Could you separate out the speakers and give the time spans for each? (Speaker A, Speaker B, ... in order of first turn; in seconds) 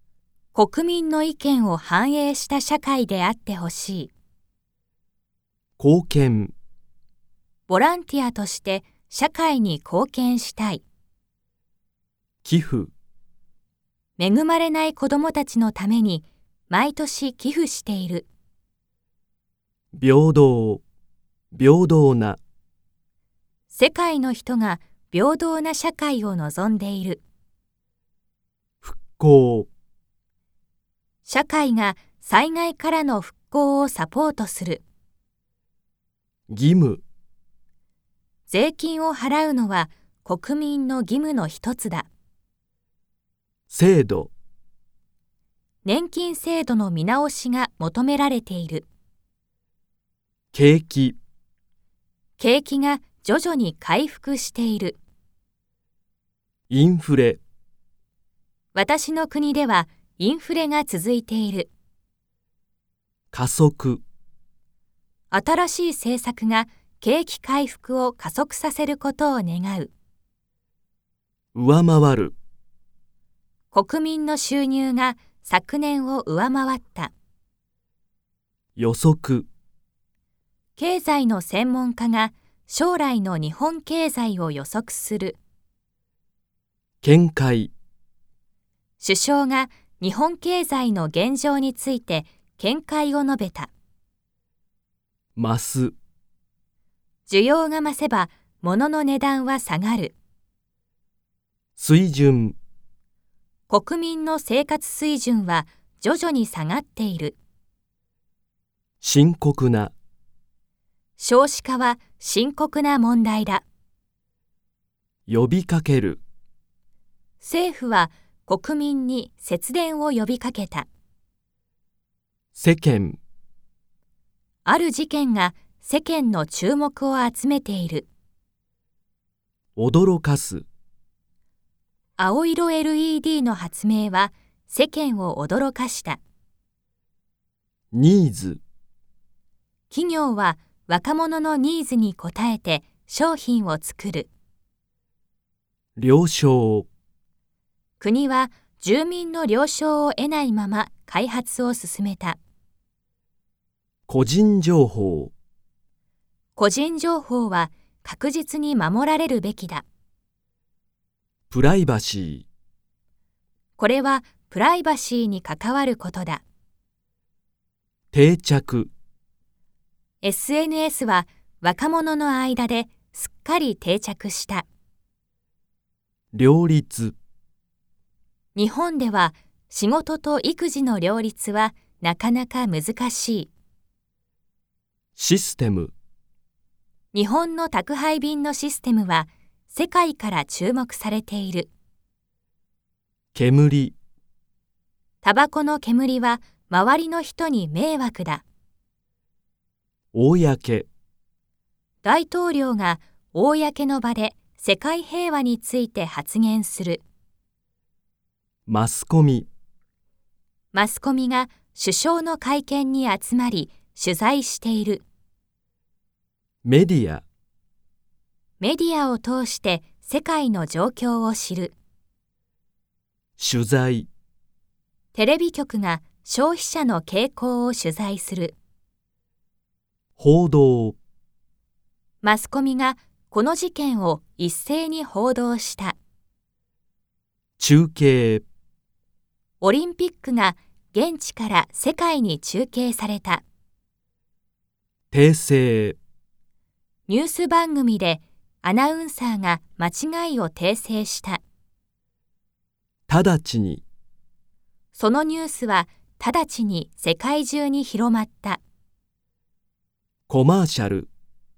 Speaker A: 0.5-4.1, 7.7-10.8, 14.2-18.2, 23.7-27.2, 31.2-34.8, 38.5-42.1, 45.8-48.9, 52.4-55.0, 58.7-61.7, 65.3-69.9, 73.7-77.1, 80.8-85.4, 89.0-93.7, 97.3-100.1, 103.7-107.3, 111.2-113.6, 117.4-120.9, 124.6-128.1, 132.2-136.2, 139.9-144.3, 148.0-152.4, 156.6-159.8, 163.8-166.4, 170.2-174.7, 178.5-183.5, 187.1-191.7, 195.2-198.4, 202.0-207.0, 210.7-215.0, 218.6-221.7, 225.1-228.5, 232.2-235.9, 239.6-243.4, 247.1-251.4, 254.9-258.6
Speaker B: 5.8-6.5, 12.4-12.9, 19.9-20.8, 21.5-22.4, 28.8-29.7, 36.5-37.0, 43.7-44.3, 50.5-51.2, 56.7-57.4, 63.3-64.0, 71.5-72.3, 78.8-79.5, 87.0-87.7, 95.3-96.0, 101.8-102.5, 109.0-109.9, 115.3-116.2, 122.5-123.2, 129.8-130.7, 137.9-138.6, 146.0-146.9, 154.1-155.3, 161.5-162.4, 168.1-168.9, 176.3-177.2, 185.2-185.9, 193.3-193.9, 200.1-200.9, 208.7-209.5, 216.6-217.2, 223.4-224.1, 230.2-231.0, 237.6-238.4, 245.1-246.0, 253.1-253.8, 260.3-261.1